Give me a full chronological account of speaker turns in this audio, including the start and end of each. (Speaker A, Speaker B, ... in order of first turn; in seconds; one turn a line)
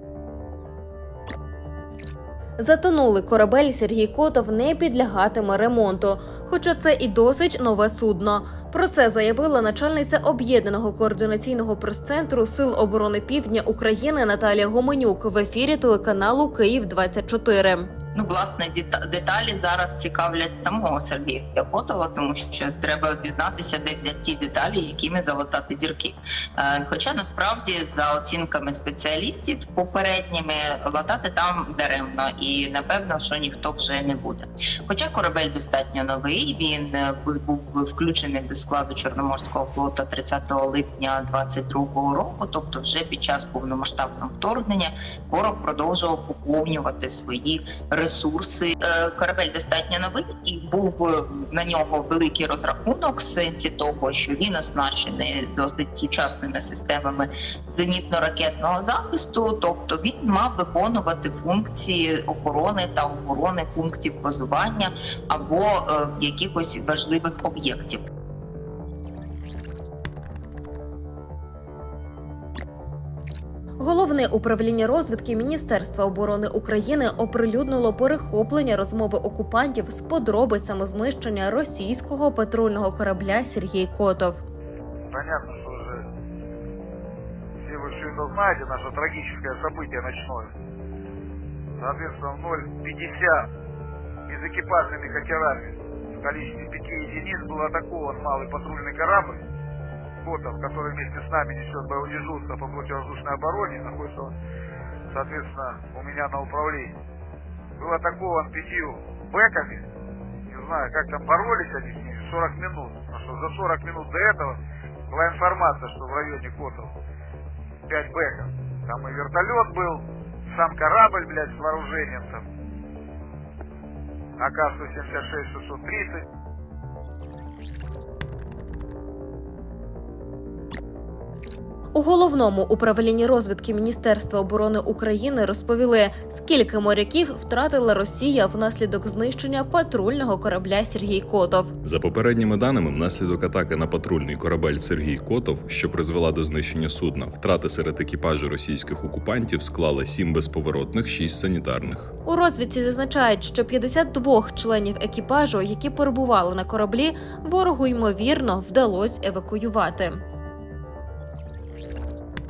Speaker A: 2.6-17.9
Speaker B: 18.1-68.0
Speaker A: 73.8-84.4
Speaker C: 85.1-86.0
Speaker C: 87.6-90.5
Speaker C: 91.8-93.5
Speaker C: 94.3-99.4
Speaker C: 100.2-104.3
Speaker C: 105.1-106.9
Speaker C: 107.8-109.8
Speaker C: 110.5-114.6
Speaker C: 115.1-116.9
Speaker C: 117.9-120.0
Speaker C: 120.5-122.4
Speaker C: 124.4-126.2
Speaker A: 131.9-141.7
Speaker D: 141.8-152.1
Speaker A: 152.2-160.2